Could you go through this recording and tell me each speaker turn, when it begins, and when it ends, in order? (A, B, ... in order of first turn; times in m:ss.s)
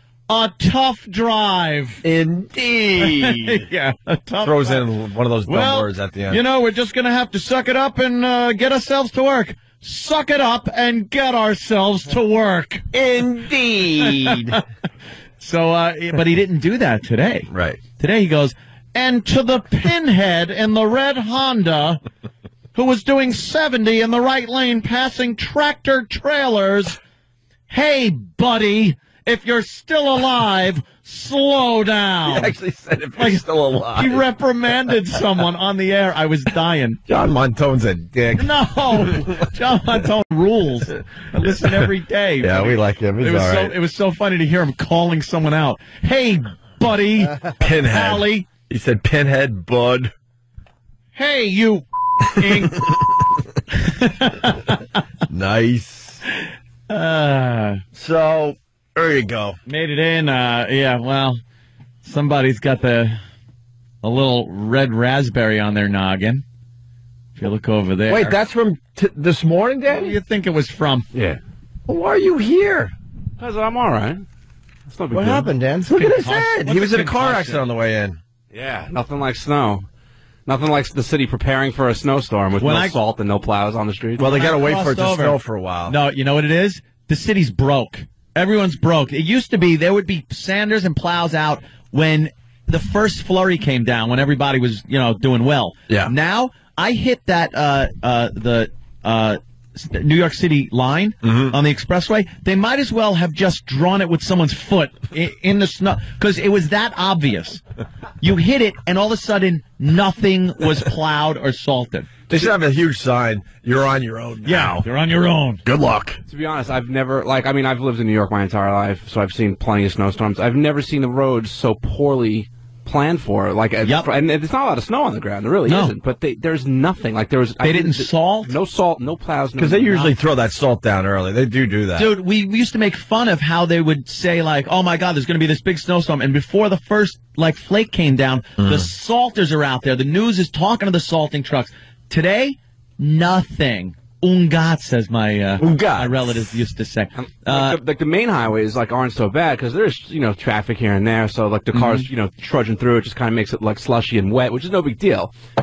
0:00.3-0:02.0 A
0:02.0-0:03.6 B
0:03.0-0:04.8 A
0:04.4-0:06.4 B
0:05.5-0:12.9 A
0:12.9-0:14.6 B
0:14.0-0:14.6 A
0:15.4-0:22.0 A
0:17.5-0:17.8 B
0:22.8-0:27.0 A
0:27.7-0:32.5 A
0:32.2-0:34.2 B
0:33.2-0:37.0 A
0:37.1-0:39.4 B
0:38.4-0:48.5 A
0:41.4-0:41.9 B
0:42.4-0:43.7 B
0:47.6-0:50.1 B
0:51.2-0:52.9 A
0:53.7-0:54.8 A
0:55.3-0:56.2 B
0:56.9-0:57.8 A
0:58.0-0:59.6 B
0:59.7-1:01.4 A
1:02.0-1:03.2 A
1:04.0-1:06.4 A
1:07.4-1:08.4 A
1:08.1-1:10.2 B
1:09.9-1:11.1 A
1:11.1-1:11.4 C
1:11.9-1:12.9 B
1:13.4-1:14.2 C
1:14.9-1:15.5 C
1:15.1-1:18.2 B
1:16.0-1:17.6 A
1:18.5-1:19.8 C
1:20.5-1:24.2 C
1:22.6-1:23.0 A
1:24.2-1:26.0 B
1:24.2-1:47.6 A
1:41.2-1:41.6 B
1:48.2-1:52.1 A
1:52.3-1:54.9 B
1:54.4-1:55.6 A
1:55.6-1:56.2 B
1:56.3-2:10.1 C
2:05.7-2:06.0 A
2:07.6-2:08.5 A
2:09.6-2:12.1 B
2:12.0-2:27.8 A
2:18.6-2:18.9 B
2:25.6-2:26.6 B
2:27.2-2:35.3 C
2:31.7-2:32.1 A